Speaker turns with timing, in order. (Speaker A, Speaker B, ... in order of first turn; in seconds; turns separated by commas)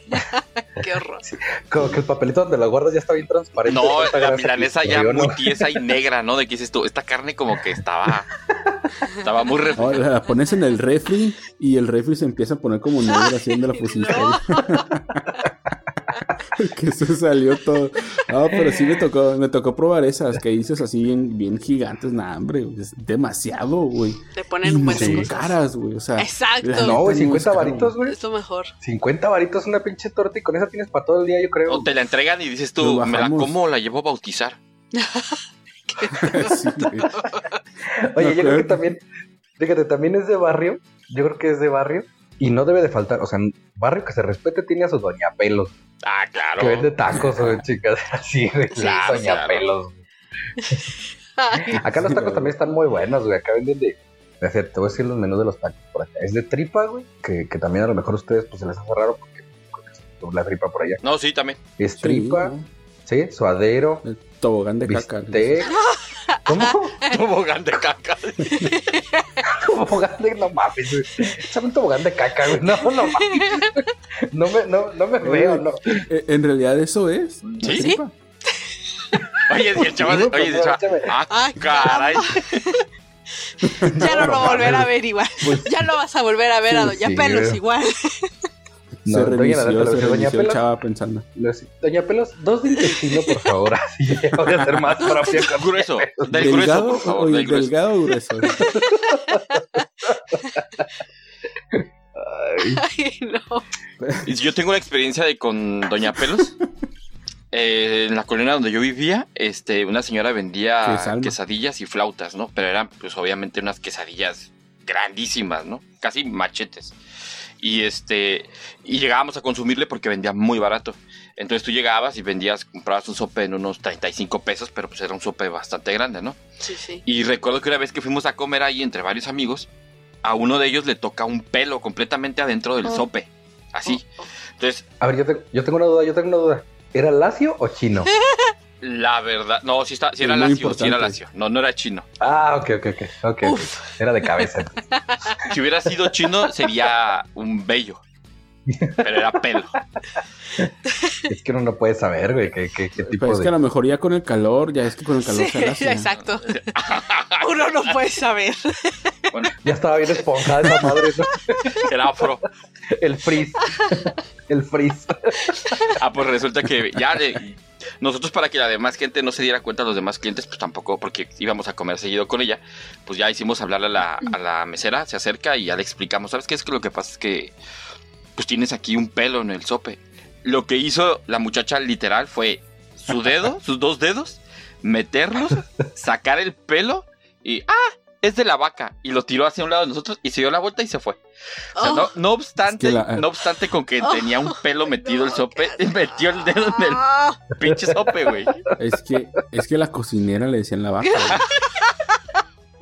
Speaker A: 0.1-1.2, Speaker B: 1.2-5.8, Speaker C: 3.7-8.3, Speaker C: 9.2-10.1, Speaker D: 9.8-15.5, Speaker A: 13.1-14.9, Speaker D: 16.6-27.9, Speaker A: 24.4-25.6, Speaker B: 24.9-25.3, Speaker A: 26.2-27.1, Speaker B: 26.8-28.2, Speaker A: 28.0-28.7, Speaker B: 28.8-31.9, Speaker C: 31.7-34.6, Speaker D: 32.8-33.5, Speaker A: 34.9-37.6, Speaker D: 36.2-37.1, Speaker B: 37.9-39.0, Speaker D: 38.2-38.8, Speaker B: 39.6-45.8, Speaker C: 46.0-46.9, Speaker B: 46.6-50.0, Speaker C: 48.7-49.6, Speaker B: 50.6-50.9, Speaker A: 51.4-51.8, Speaker B: 51.7-61.0, Speaker D: 51.8-52.5, Speaker C: 61.0-61.6, Speaker B: 61.8-64.1, Speaker D: 62.0-62.7, Speaker D: 64.0-65.6, Speaker B: 64.8-65.8, Speaker A: 65.7-66.8, Speaker B: 66.5-67.0, Speaker C: 67.1-68.7, Speaker A: 68.5-69.4, Speaker B: 69.5-76.0, Speaker A: 73.0-73.8, Speaker D: 75.2-78.1, Speaker C: 77.6-77.9, Speaker A: 77.8-78.6, Speaker B: 79.1-81.2, Speaker C: 79.5-82.6, Speaker A: 81.3-82.8, Speaker A: 83.8-88.3, Speaker B: 83.9-85.9, Speaker B: 86.7-87.6, Speaker D: 89.0-91.3, Speaker B: 89.0-90.6, Speaker B: 91.3-96.8, Speaker A: 92.8-93.3, Speaker A: 95.0-95.3, Speaker C: 95.4-97.7, Speaker D: 96.4-98.6, Speaker A: 98.5-99.8, Speaker B: 98.6-99.4, Speaker B: 101.7-102.8, Speaker A: 102.6-103.7, Speaker D: 104.0-104.3, Speaker C: 104.2-106.5, Speaker C: 107.5-117.0, Speaker D: 110.8-111.4, Speaker C: 117.6-126.4, Speaker A: 126.6-127.0, Speaker C: 127.0-129.7, Speaker C: 130.2-134.1, Speaker A: 133.9-134.3, Speaker C: 134.6-134.8, Speaker B: 135.0-138.1, Speaker A: 138.1-138.5, Speaker C: 138.8-142.1, Speaker D: 140.2-141.2, Speaker B: 142.2-144.8, Speaker A: 143.4-143.7, Speaker A: 145.0-145.5, Speaker C: 145.5-148.0, Speaker B: 148.7-149.4, Speaker C: 149.0-149.8, Speaker B: 151.3-153.5, Speaker D: 153.0-156.1, Speaker A: 155.3-156.7, Speaker C: 156.2-157.9, Speaker A: 157.4-159.2, Speaker B: 159.6-161.7, Speaker C: 161.8-162.4, Speaker B: 162.9-165.6, Speaker A: 165.5-165.9, Speaker C: 166.0-177.5, Speaker C: 178.4-191.2, Speaker C: 191.8-198.6, Speaker A: 191.8-192.1, Speaker D: 192.7-193.3, Speaker A: 194.0-195.8, Speaker A: 196.4-197.4, Speaker B: 197.6-198.5, Speaker D: 198.8-201.4, Speaker A: 201.1-201.9